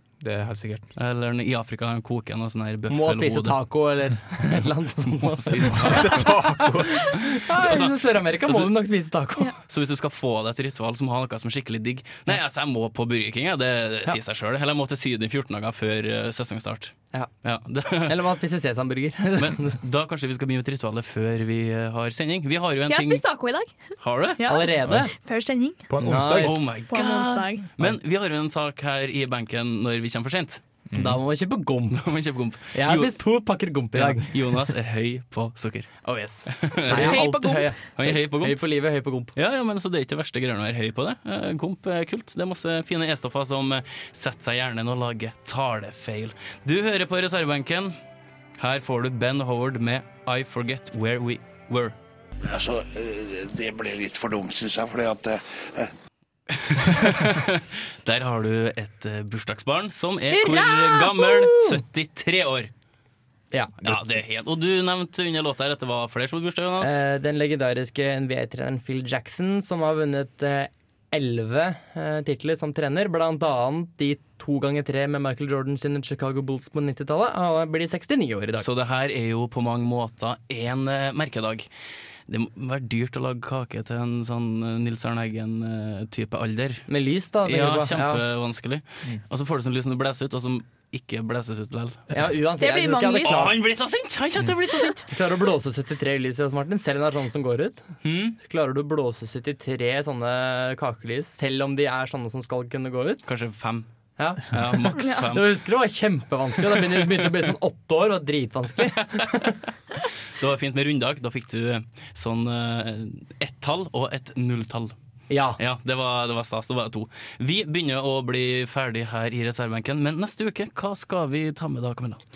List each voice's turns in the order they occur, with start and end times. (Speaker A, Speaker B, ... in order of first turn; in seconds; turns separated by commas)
Speaker A: 0.2-0.9, Speaker B: 1.0-3.5, Speaker C: 2.9-6.3, Speaker B: 5.2-6.3, Speaker A: 5.6-7.1, Speaker C: 7.0-9.5, Speaker B: 7.3-8.7, Speaker B: 9.7-18.2, Speaker C: 18.1-19.8, Speaker B: 19.4-23.2, Speaker D: 22.9-25.8, Speaker B: 24.0-24.4, Speaker C: 24.5-25.1, Speaker A: 25.9-26.7, Speaker C: 26.0-26.6, Speaker B: 26.4-30.6, Speaker D: 26.9-27.7, Speaker A: 30.9-31.2, Speaker C: 30.9-32.1, Speaker B: 32.0-33.1, Speaker C: 32.7-34.3, Speaker B: 33.9-37.2, Speaker C: 36.0-39.3, Speaker D: 36.9-37.7, Speaker B: 38.0-38.5, Speaker B: 39.4-48.0, Speaker B: 48.6-51.9, Speaker E: 52.5-55.9, Speaker B: 56.5-62.7, Speaker D: 60.3-61.5, Speaker B: 63.8-67.0, Speaker C: 66.8-78.7, Speaker B: 78.6-81.7, Speaker B: 82.3-86.9, Speaker C: 86.9-88.2, Speaker B: 87.4-92.1, Speaker C: 92.1-93.5, Speaker D: 92.6-93.5, Speaker B: 93.2-95.1, Speaker C: 95.1-97.8, Speaker B: 98.0-98.3, Speaker C: 98.4-103.2, Speaker B: 103.2-103.9, Speaker C: 104.2-109.5, Speaker B: 104.5-105.4, Speaker D: 105.0-105.2, Speaker B: 110.4-114.9, Speaker C: 115.3-115.6, Speaker B: 115.6-122.2